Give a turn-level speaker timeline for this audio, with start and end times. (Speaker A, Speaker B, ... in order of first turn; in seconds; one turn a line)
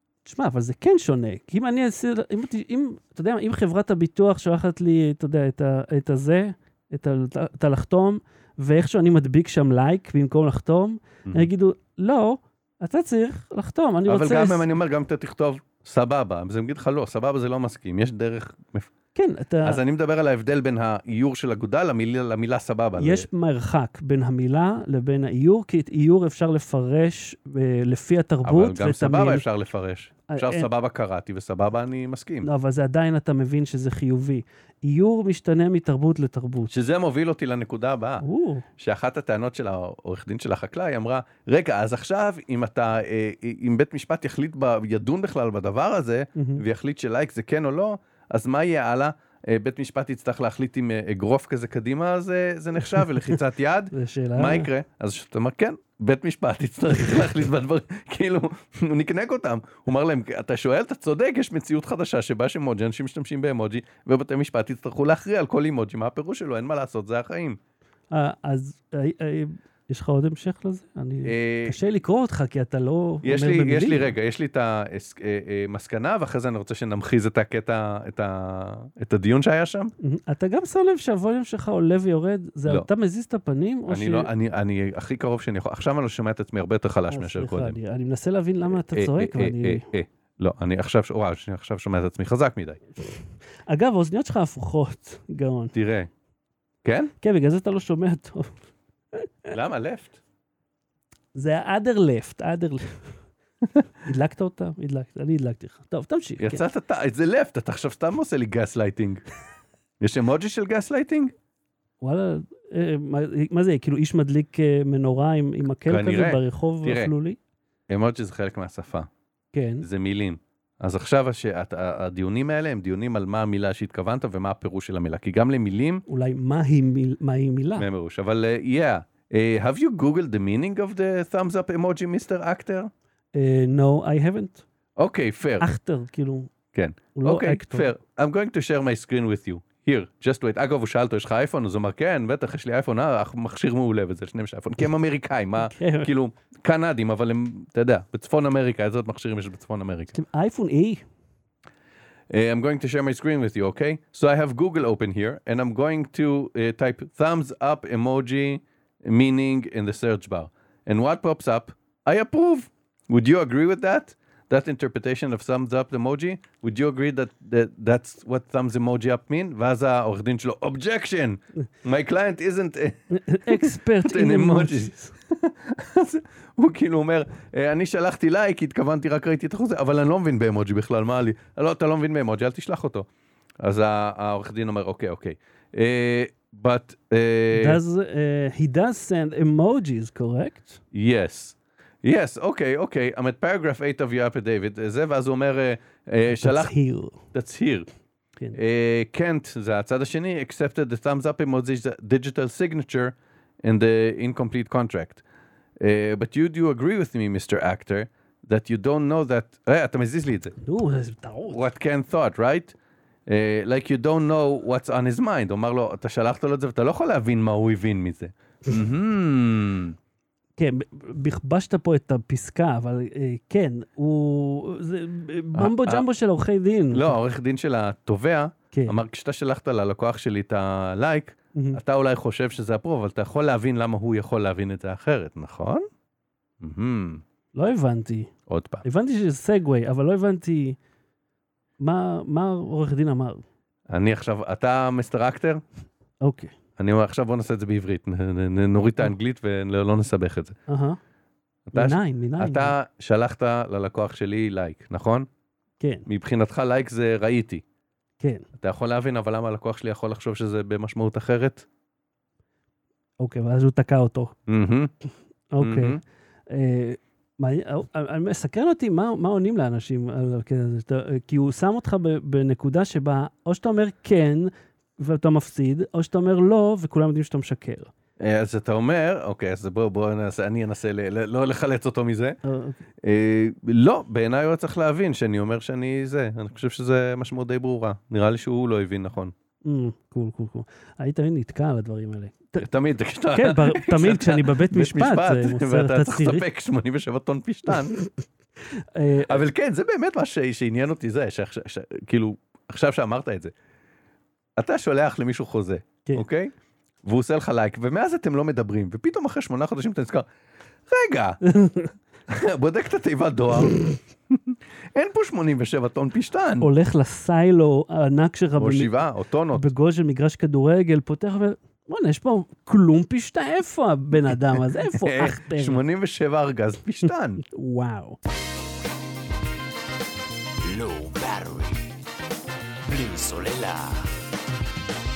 Speaker A: 0.3-14.7
Speaker B: 14.1-18.9
Speaker A: 19.1-19.8
Speaker B: 19.6-23.3
Speaker A: 23.0-29.4
Speaker B: 28.4-32.5
Speaker A: 30.3-30.7
Speaker A: 32.4-36.7
Speaker B: 36.7-38.2
Speaker A: 38.2-38.7
Speaker B: 38.8-67.6
Speaker A: 46.4-46.6
Speaker A: 53.9-54.7
Speaker A: 68.1-74.1
Speaker B: 71.2-71.8
Speaker B: 73.2-79.9
Speaker A: 80.0-84.3
Speaker B: 83.9-87.8
Speaker A: 87.1-89.8
Speaker B: 88.7-92.8
Speaker A: 93.0-95.7
Speaker B: 95.7-96.1
Speaker B: 96.8-97.1
Speaker A: 97.2-98.6
Speaker A: 99.1-99.5
Speaker B: 99.5-100.2
Speaker A: 101.3-103.1
Speaker A: 104.0-106.7
Speaker B: 106.4-109.2
Speaker B: 110.0-111.3
Speaker A: 112.0-117.4
Speaker B: 115.9-117.1
Speaker B: 117.9-119.1
Speaker A: 119.5-119.9
Speaker B: 119.8-126.0
Speaker A: 126.1-127.9
Speaker B: 127.8-132.9
Speaker A: 133.3-134.7
Speaker B: 135.0-135.7
Speaker A: 135.6-136.5
Speaker B: 136.7-150.2
Speaker A: 137.2-137.9
Speaker A: 145.6-146.1
Speaker A: 150.1-151.0
Speaker B: 152.3-183.1
Speaker A: 173.1-175.2
Speaker B: 183.6-187.8
Speaker A: 187.5-190.8
Speaker B: 190.9-196.7
Speaker A: 196.4-197.2
Speaker B: 197.3-197.9
Speaker B: 198.5-205.2
Speaker B: 205.8-210.6
Speaker A: 210.6-211.7
Speaker B: 211.5-212.8
Speaker B: 213.3-220.0
Speaker A: 220.6-227.2
Speaker B: 225.6-226.1
Speaker B: 226.9-235.8
Speaker A: 231.6-231.8
Speaker B: 236.6-237.2
Speaker A: 237.5-238.3
Speaker B: 238.5-238.8
Speaker A: 238.8-240.8
Speaker A: 241.8-243.4
Speaker B: 243.9-245.6
Speaker A: 246.2-246.5
Speaker B: 246.8-250.6
Speaker A: 250.7-251.0
Speaker B: 251.7-255.3
Speaker A: 251.7-252.8
Speaker A: 255.8-256.1
Speaker B: 256.1-257.6
Speaker A: 258.2-258.5
Speaker B: 258.6-261.7
Speaker A: 263.2-264.3
Speaker B: 264.5-264.9
Speaker A: 265.5-277.9
Speaker B: 265.6-266.0
Speaker B: 278.2-282.4
Speaker A: 282.4-282.8
Speaker B: 283.0-289.3
Speaker A: 289.6-292.7
Speaker B: 292.6-298.0
Speaker A: 293.3-296.5
Speaker A: 298.7-299.4
Speaker B: 299.3-303.5
Speaker B: 304.6-306.5
Speaker B: 307.0-310.3
Speaker B: 310.9-311.4
Speaker A: 311.5-311.9
Speaker B: 312.3-313.8
Speaker B: 314.3-316.7
Speaker A: 316.6-318.9
Speaker B: 318.6-319.7
Speaker A: 319.5-325.8
Speaker B: 324.9-327.4
Speaker A: 327.4-328.2
Speaker C: 330.6-331.9
Speaker C: 332.9-334.1